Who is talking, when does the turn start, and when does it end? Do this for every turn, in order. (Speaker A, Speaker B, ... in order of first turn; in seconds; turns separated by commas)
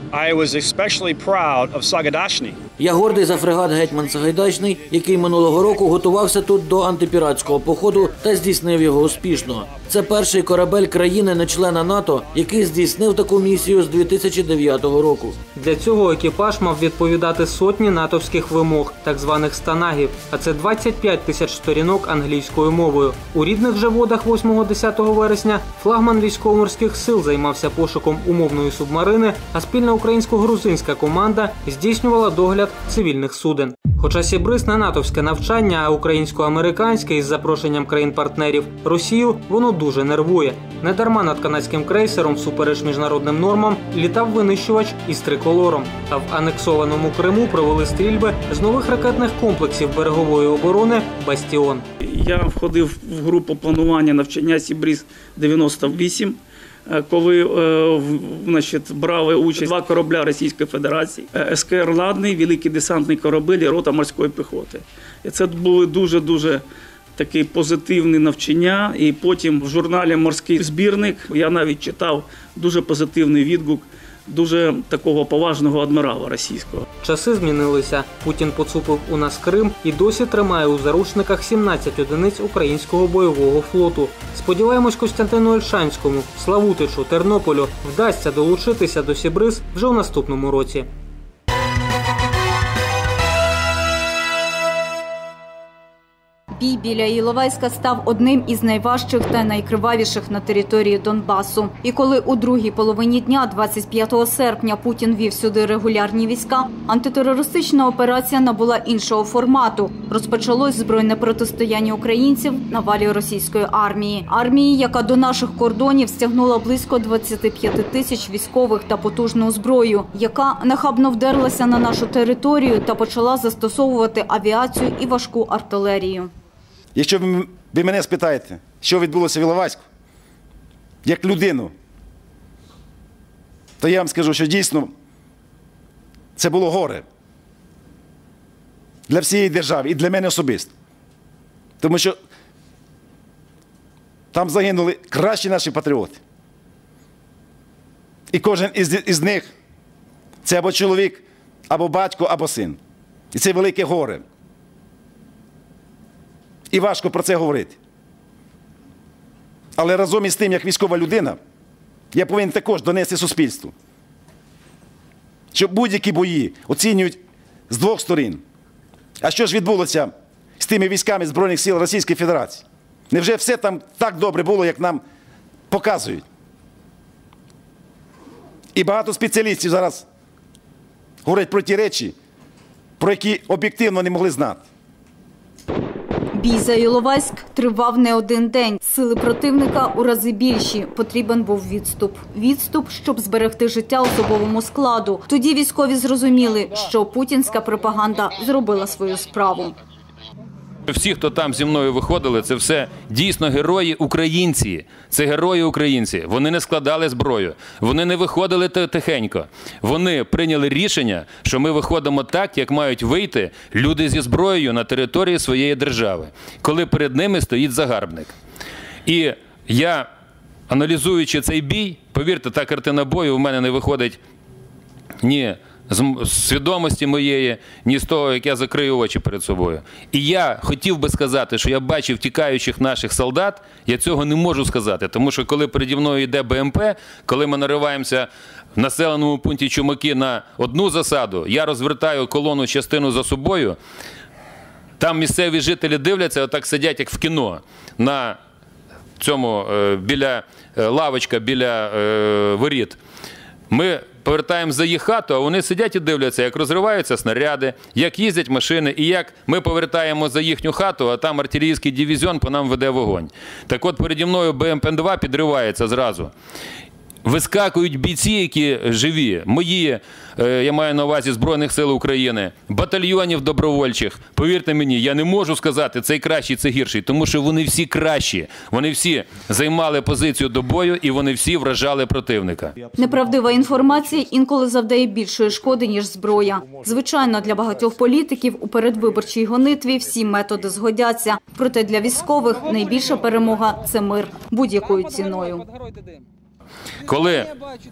Speaker A: 0.1-2.6, Speaker B: 2.8-15.4, Speaker C: 15.6-51.8, Speaker D: 52.0-66.6, Speaker D: 67.2-76.8, Speaker C: 77.0-90.9, Speaker E: 96.5-126.3, Speaker F: 126.9-129.8, Speaker F: 131.0-131.7, Speaker F: 133.8-134.9, Speaker F: 136.4-137.0, Speaker F: 139.1-140.7, Speaker F: 141.8-142.2, Speaker F: 144.3-146.2, Speaker F: 148.3-149.5, Speaker F: 150.4-152.8, Speaker F: 153.3-154.2, Speaker F: 156.7-157.8, Speaker F: 159.8-161.4, Speaker F: 162.1-163.7, Speaker F: 165.5-167.2, Speaker F: 167.7-168.4, Speaker F: 169.2-175.0, Speaker F: 175.7-176.2, Speaker F: 178.7-180.0, Speaker F: 181.2-182.1, Speaker F: 183.0-184.6, Speaker E: 186.3-199.8, Speaker G: 200.9-218.3, Speaker G: 219.1-220.1, Speaker G: 220.7-224.2, Speaker G: 225.2-243.8, Speaker G: 245.0-248.4, Speaker G: 249.2-253.0, Speaker G: 253.7-266.3, Speaker G: 267.2-282.7, Speaker E: 282.9-295.6, Speaker G: 297.0-297.5